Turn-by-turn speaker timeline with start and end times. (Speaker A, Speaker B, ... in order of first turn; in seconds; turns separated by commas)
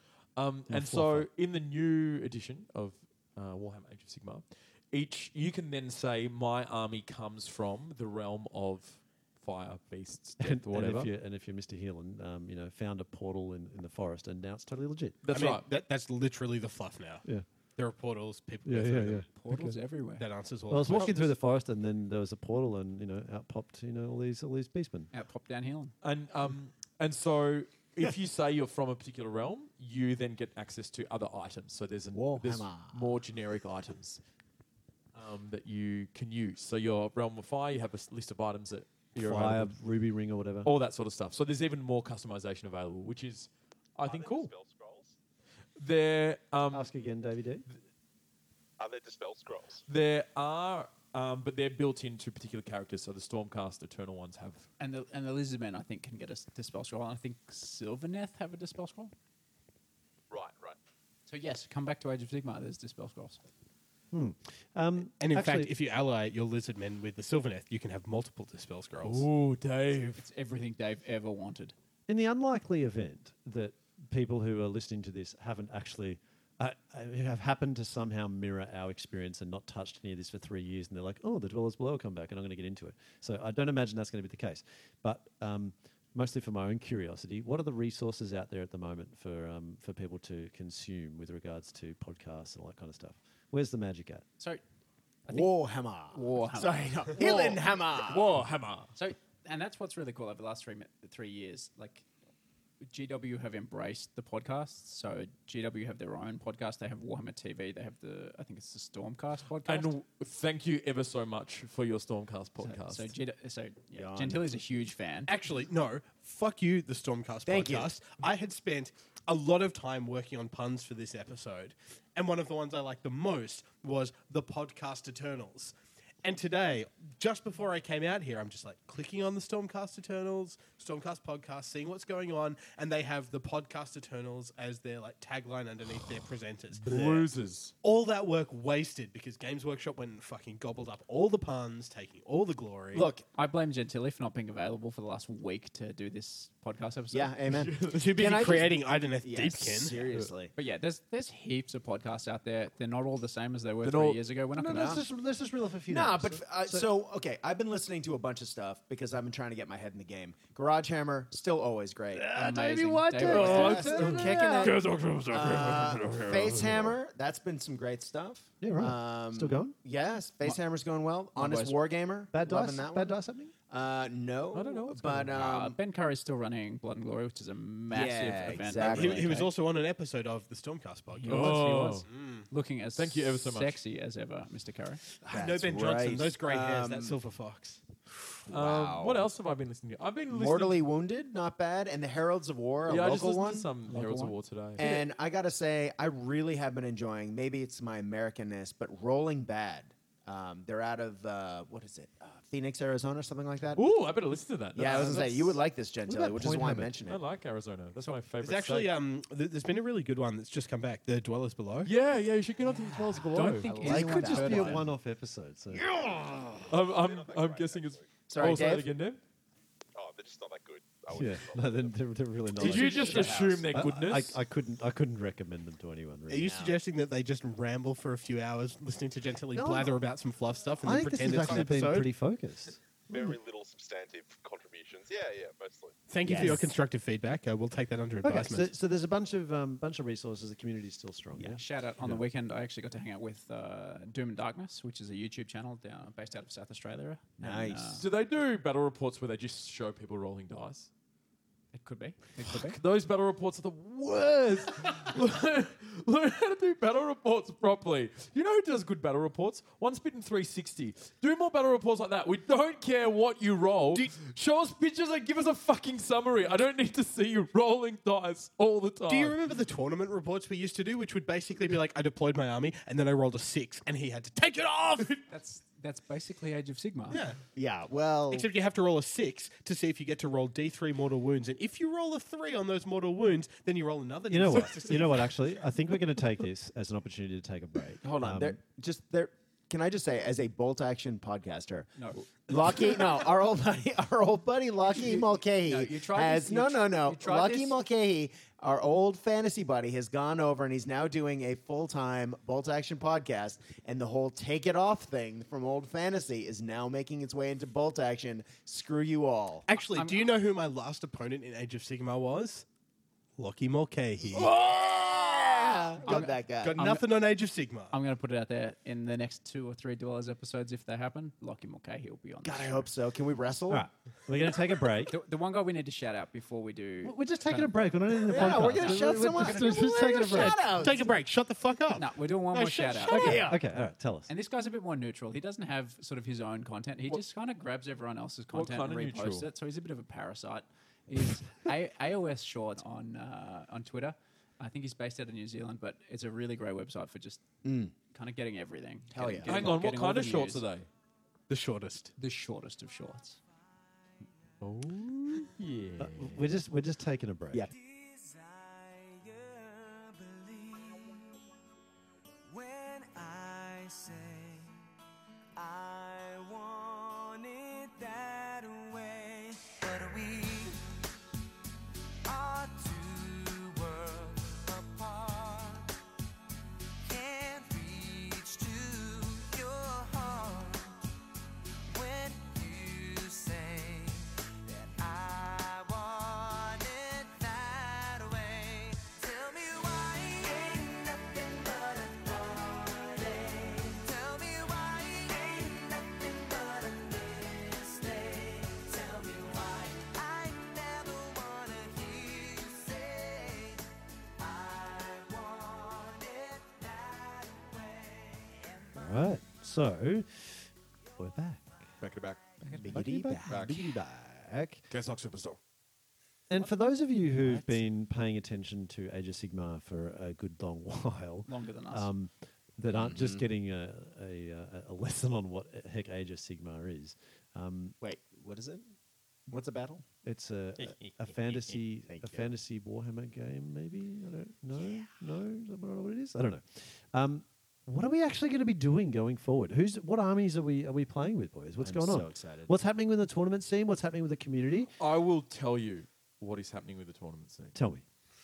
Speaker A: 0.4-11.1, Speaker B: 0.7-1.3, Speaker B: 10.4-15.2, Speaker A: 15.2-15.7, Speaker C: 15.3-17.2, Speaker C: 17.8-19.2, Speaker B: 18.6-19.8, Speaker D: 19.3-20.3, Speaker C: 20.2-21.3, Speaker B: 20.7-25.1, Speaker D: 25.1-25.9, Speaker A: 26.0-34.2, Speaker E: 32.1-33.0, Speaker A: 35.1-39.7, Speaker B: 39.2-40.7, Speaker A: 40.6-44.5, Speaker F: 44.0-45.1, Speaker A: 45.8-46.9, Speaker B: 46.7-47.6, Speaker F: 48.8-49.8, Speaker A: 49.9-54.7, Speaker D: 54.8-59.1, Speaker F: 60.3-60.8, Speaker D: 61.3-63.4, Speaker B: 64.1-65.7, Speaker C: 65.2-69.3, Speaker A: 69.0-70.2, Speaker D: 70.2-71.7, Speaker B: 72.1-94.2, Speaker D: 95.3-95.5, Speaker E: 95.3-98.3, Speaker D: 96.1-97.6, Speaker A: 98.0-98.9, Speaker D: 98.9-102.1, Speaker D: 102.8-109.9, Speaker A: 109.7-113.1, Speaker D: 112.6-115.3, Speaker E: 114.0-114.5, Speaker C: 115.3-137.3, Speaker E: 117.5-117.9, Speaker A: 136.7-137.7, Speaker C: 137.8-143.1, Speaker E: 142.9-143.2, Speaker D: 143.0-147.3, Speaker E: 147.1-150.5, Speaker A: 147.5-148.4, Speaker C: 147.9-150.1, Speaker D: 150.6-155.0, Speaker A: 153.8-154.2, Speaker B: 154.6-156.9, Speaker E: 155.9-162.4, Speaker B: 162.2-164.8, Speaker D: 162.3-164.1, Speaker E: 163.2-173.2, Speaker A: 163.3-166.9, Speaker B: 168.6-169.8, Speaker D: 171.4-171.8, Speaker B: 172.3-173.5, Speaker E: 173.7-175.8, Speaker A: 174.5-175.4, Speaker D: 175.3-179.5, Speaker E: 177.9-179.4, Speaker C: 178.8-182.5, Speaker D: 181.2-185.0, Speaker A: 181.2-182.1, Speaker A: 183.0-183.8, Speaker E: 185.3-187.2, Speaker C: 185.3-187.8, Speaker E: 188.5-189.3, Speaker A: 188.5-190.8, Speaker E: 190.3-193.7, Speaker A: 192.9-195.0, Speaker D: 193.9-194.3, Speaker E: 194.8-203.8, Speaker A: 203.8-205.6, Speaker E: 204.8-207.2, Speaker B: 206.1-206.9, Speaker A: 207.1-209.0, Speaker C: 208.4-211.9, Speaker A: 211.8-213.7, Speaker D: 213.2-214.9, Speaker E: 213.6-214.9, Speaker B: 213.7-215.9, Speaker E: 215.7-216.7, Speaker A: 216.7-219.2, Speaker F: 216.7-218.2, Speaker E: 218.3-218.9, Speaker F: 219.9-221.9, Speaker B: 221.1-226.6, Speaker A: 222.6-224.4, Speaker E: 222.6-223.9, Speaker C: 226.3-232.1, Speaker E: 226.3-226.8, Speaker B: 229.6-229.9, Speaker B: 230.8-233.4, Speaker F: 231.3-231.7, Speaker F: 233.1-236.0, Speaker C: 236.1-238.7, Speaker E: 236.2-236.7, Speaker B: 236.3-236.6, Speaker B: 238.2-242.2, Speaker D: 241.5-248.1, Speaker E: 247.4-248.0, Speaker A: 248.0-250.9, Speaker D: 251.7-252.8, Speaker A: 252.5-269.4, Speaker C: 269.1-275.2, Speaker D: 275.3-277.2, Speaker C: 277.1-277.4, Speaker E: 277.6-278.5, Speaker C: 278.3-285.4, Speaker B: 284.3-288.6, Speaker E: 288.0-309.7, Speaker D: 292.0-292.3, Speaker D: 295.0-297.8, Speaker C: 309.7-312.6, Speaker D: 309.9-310.3, Speaker C: 313.4-314.5, Speaker E: 314.3-317.0, Speaker D: 316.1-317.1, Speaker C: 316.6-317.9, Speaker D: 317.9-322.9, Speaker E: 322.4-323.9, Speaker B: 323.7-325.1, Speaker D: 325.1-329.4, Speaker B: 327.0-330.6, Speaker E: 328.3-331.2, Speaker C: 330.2-333.5, Speaker D: 331.9-333.5, Speaker E: 333.1-333.5, Speaker B: 333.1-334.3, Speaker D: 334.3-347.4, Speaker A: 338.5-339.5, Speaker E: 347.6-347.9, Speaker D: 348.1-350.6, Speaker E: 349.1-349.8, Speaker A: 349.4-350.9, Speaker C: 351.5-352.1, Speaker D: 352.2-353.4, Speaker A: 354.6-356.5, Speaker B: 356.0-357.7, Speaker G: 357.7-361.4, Speaker G: 362.5-364.8, Speaker G: 365.6-370.9, Speaker G: 372.2-375.9, Speaker G: 377.0-381.0, Speaker G: 381.9-403.9, Speaker G: 404.4-408.9, Speaker B: 408.9-411.7, Speaker A: 412.0-412.4, Speaker E: 412.8-414.4, Speaker B: 412.9-414.8, Speaker A: 414.9-415.6, Speaker B: 416.5-428.0, Speaker D: 417.4-417.8, Speaker D: 421.5-422.1, Speaker E: 422.9-423.4, Speaker E: 428.0-428.9, Speaker E: 429.5-430.0, Speaker B: 430.2-444.9, Speaker E: 431.3-432.5, Speaker E: 441.8-442.7, Speaker A: 445.0-447.8, Speaker B: 447.7-448.0